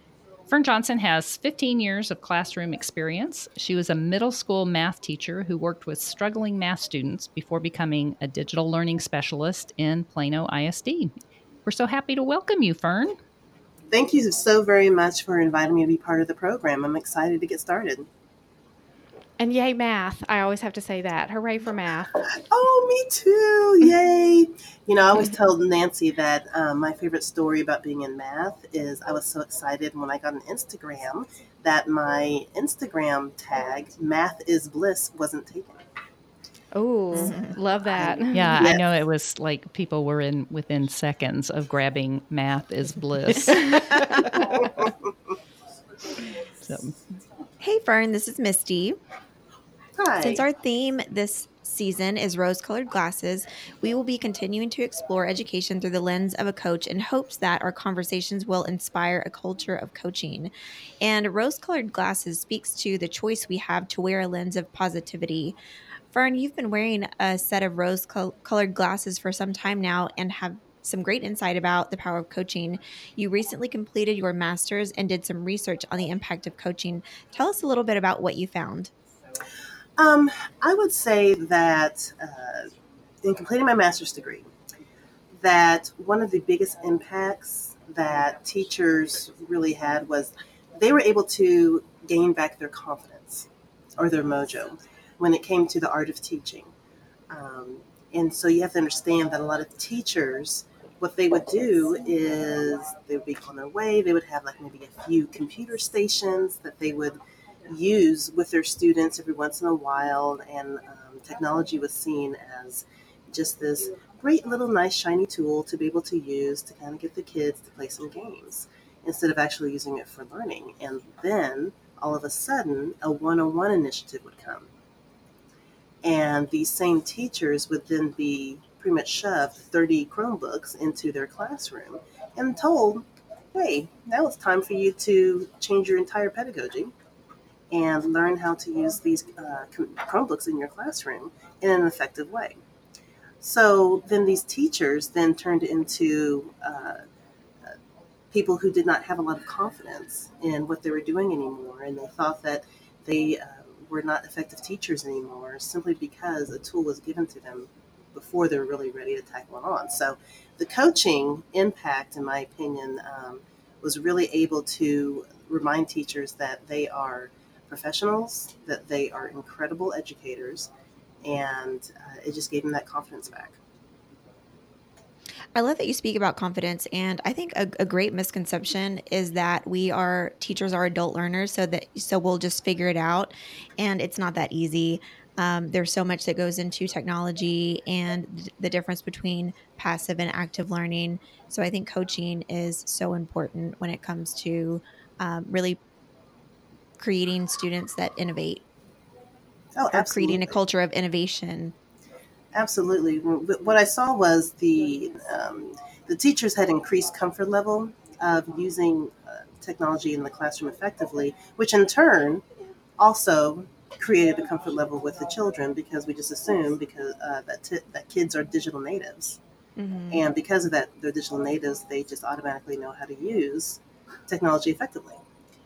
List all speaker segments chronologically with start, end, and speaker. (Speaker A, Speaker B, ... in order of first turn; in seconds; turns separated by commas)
Speaker A: 0.5-11.1, Speaker A: 11.7-13.2, Speaker B: 13.9-18.1, Speaker C: 19.4-22.2, Speaker B: 22.2-35.8, Speaker C: 36.7-38.7, Speaker D: 37.2-37.5, Speaker B: 38.0-38.8, Speaker A: 38.3-44.6, Speaker C: 43.6-43.9, Speaker A: 46.6-47.0, Speaker D: 47.6-49.0, Speaker B: 50.0-50.4, Speaker D: 50.2-65.5, Speaker D: 66.1-78.9, Speaker B: 80.0-82.7, Speaker B: 83.2-84.5, Speaker B: 85.4-96.7, Speaker B: 97.3-124.7, Speaker B: 126.0-136.9, Speaker B: 137.7-142.6, Speaker B: 143.4-147.0, Speaker B: 148.3-170.7, Speaker B: 171.2-173.6, Speaker D: 175.5-195.8, Speaker D: 197.0-198.6, Speaker B: 199.7-200.6, Speaker D: 199.9-201.7, Speaker B: 202.5-212.4, Speaker B: 213.0-219.4, Speaker D: 219.8-220.2, Speaker B: 220.1-225.2